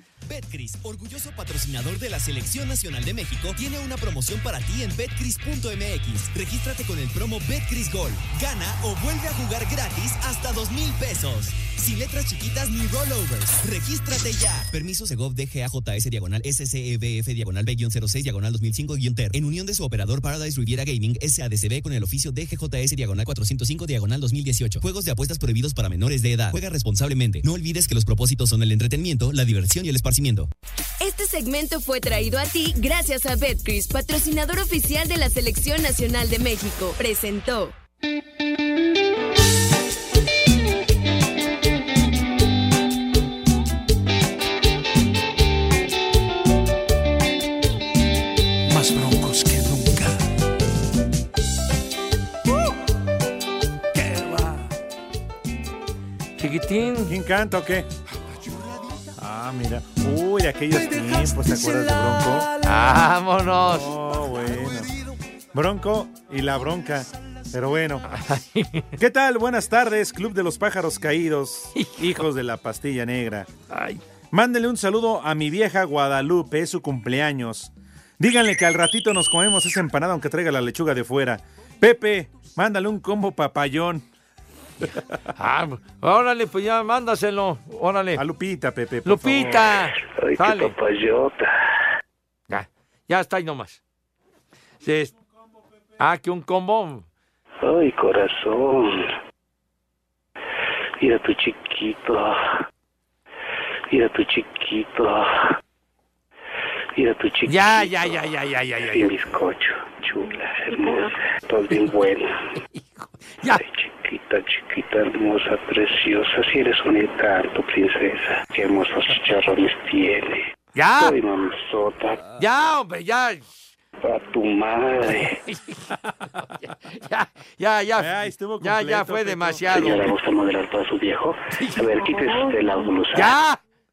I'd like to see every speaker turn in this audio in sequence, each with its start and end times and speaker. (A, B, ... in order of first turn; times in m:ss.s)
0:00.2-0:30.5 A
0:31.0-0:37.7 B
0:53.9-0:54.7 C
0:56.4-0:57.1 C
0:57.0-0:57.9 D
0:59.2-1:02.5 D
1:02.6-1:03.9 C
1:03.6-1:04.9 D
1:05.5-1:08.0 D
1:08.1-1:08.9 C
1:09.0-1:13.5 D
1:11.8-1:12.2 C
1:13.7-1:14.0 C
1:14.3-1:24.0 D
1:25.3-1:28.2 C
1:28.1-1:29.8 D
1:29.0-1:30.7 C
1:30.0-1:31.6 E
1:32.5-1:33.8 C
1:34.8-1:35.2 C
1:36.0-1:37.0 C
1:37.6-1:39.1 E
1:41.0-1:42.4 E
1:43.9-1:45.5 E
1:46.9-1:48.2 E
1:47.5-1:49.1 C
1:48.9-1:52.3 E
1:52.7-1:53.6 C
1:53.5-2:00.4 E
2:00.7-2:01.2 C
2:01.0-2:02.2 E
2:02.4-2:03.7 C
2:04.0-2:05.4 E
2:05.4-2:10.1 C
2:08.0-2:09.7 D
2:09.7-2:13.3 E
2:11.5-2:11.9 C
2:13.1-2:13.6 C